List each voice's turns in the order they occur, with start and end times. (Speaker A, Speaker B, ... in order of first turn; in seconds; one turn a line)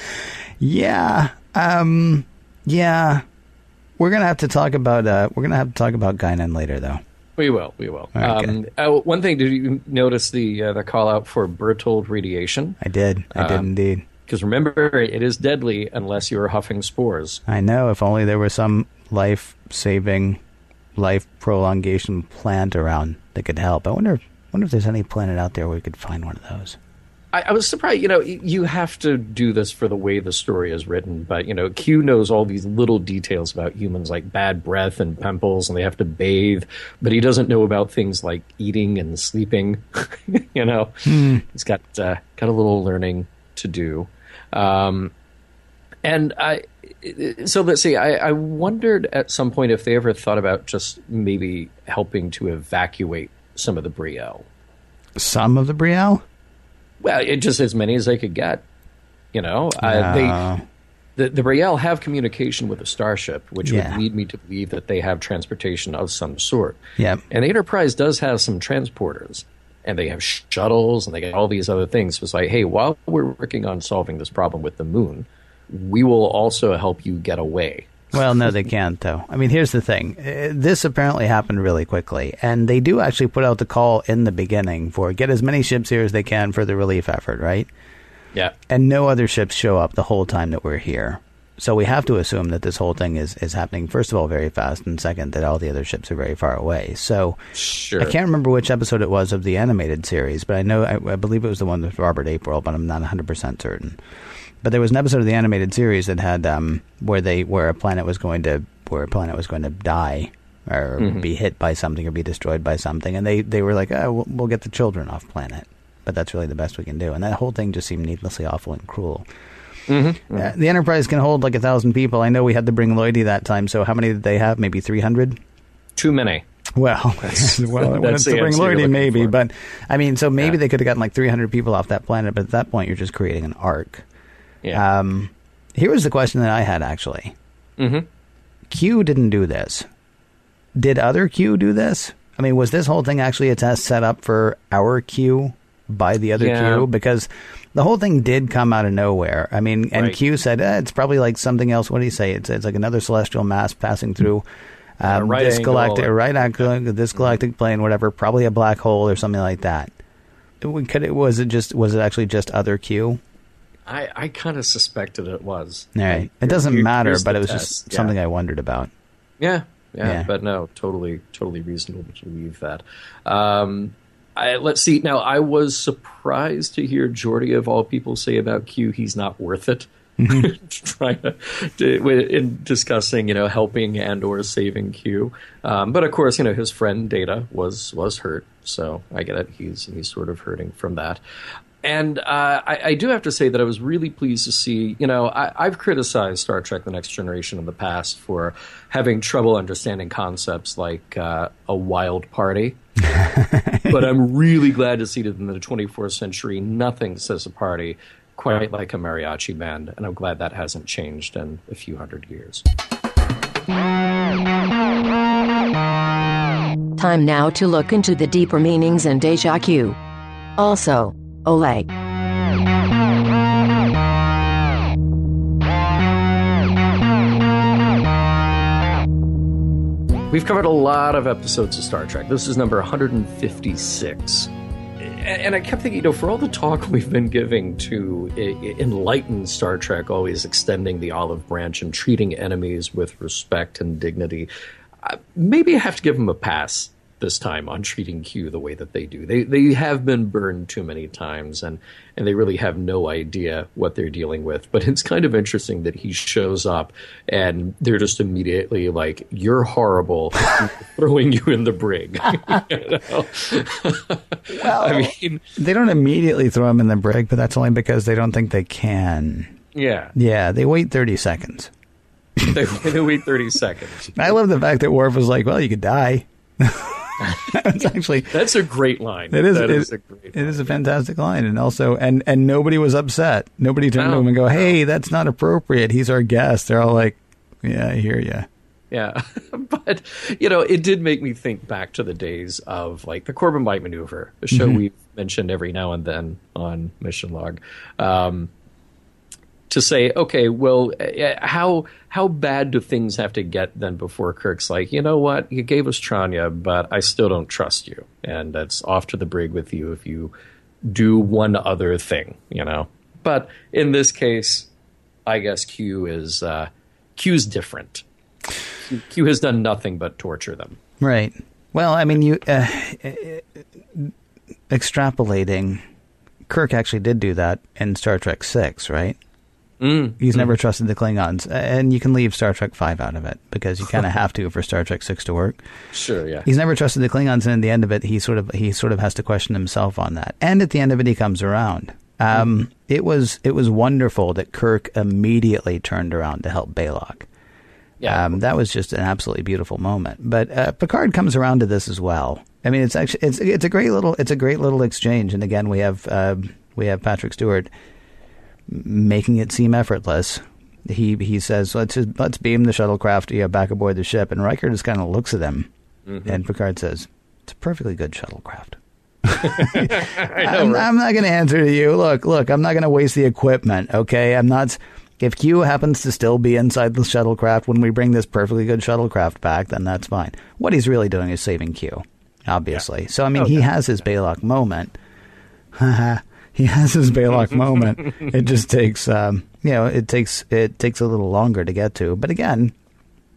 Speaker A: 0.6-3.2
Speaker A: 4.0-7.0
Speaker B: 7.4-12.8
Speaker A: 8.2-8.5
Speaker A: 12.8-14.0
Speaker B: 13.3-13.7
Speaker B: 14.3-17.4
Speaker A: 17.5-20.4
Speaker A: 20.9-26.8
Speaker B: 27.3-45.1
Speaker A: 41.0-41.4
Speaker B: 46.0-54.5
Speaker A: 55.2-56.2
Speaker B: 57.0-58.6
Speaker B: 59.3-60.4
Speaker A: 59.8-60.6
Speaker B: 61.2-66.8
Speaker A: 63.6-64.0
Speaker B: 67.3-78.1
Speaker A: 78.1-87.7
Speaker A: 88.7-97.4
Speaker B: 97.5-98.1
Speaker A: 98.0-104.0
Speaker A: 104.6-119.2
Speaker B: 111.0-111.3
Speaker B: 119.9-120.5
Speaker A: 120.3-125.4
Speaker B: 126.0-126.4
Speaker A: 126.8-134.0
Speaker B: 127.2-129.3
Speaker A: 134.7-137.3
Speaker B: 137.8-138.1
Speaker A: 138.7-139.8
Speaker A: 140.8-154.4
Speaker B: 146.3-146.9
Speaker A: 155.0-159.9
Speaker B: 155.0-156.7
Speaker A: 160.6-163.2
Speaker B: 163.8-168.1
Speaker A: 165.9-168.9
Speaker B: 169.4-191.2
Speaker A: 170.0-170.3
Speaker A: 180.2-180.5
Speaker B: 191.8-202.8
Speaker A: 203.1-203.9
Speaker B: 203.8-212.6
Speaker C: 217.0-220.0
Speaker C: 220.6-221.9
Speaker B: 230.3-244.5
Speaker B: 245.0-265.4
Speaker A: 264.5-269.5
Speaker B: 269.7-270.1
Speaker A: 270.1-271.7
Speaker B: 272.4-274.4
Speaker A: 274.1-278.4
Speaker B: 277.2-280.8
Speaker A: 279.3-288.5
Speaker B: 283.9-284.7
Speaker B: 288.9-298.5
Speaker A: 294.5-294.8
Speaker B: 299.7-310.3
Speaker B: 310.8-314.7
Speaker B: 315.2-318.0
Speaker B: 318.8-320.8
Speaker A: 321.0-324.1
Speaker A: 324.7-325.8
Speaker A: 326.5-329.2
Speaker B: 329.8-330.5
Speaker A: 330.2-335.6
Speaker B: 335.9-336.5
Speaker A: 336.4-347.3
Speaker B: 348.0-348.4
Speaker A: 348.1-357.7
Speaker A: 358.7-365.7
Speaker B: 366.1-366.4
Speaker A: 366.2-384.9
Speaker B: 369.4-370.9
Speaker B: 383.4-383.6
Speaker A: 385.7-392.7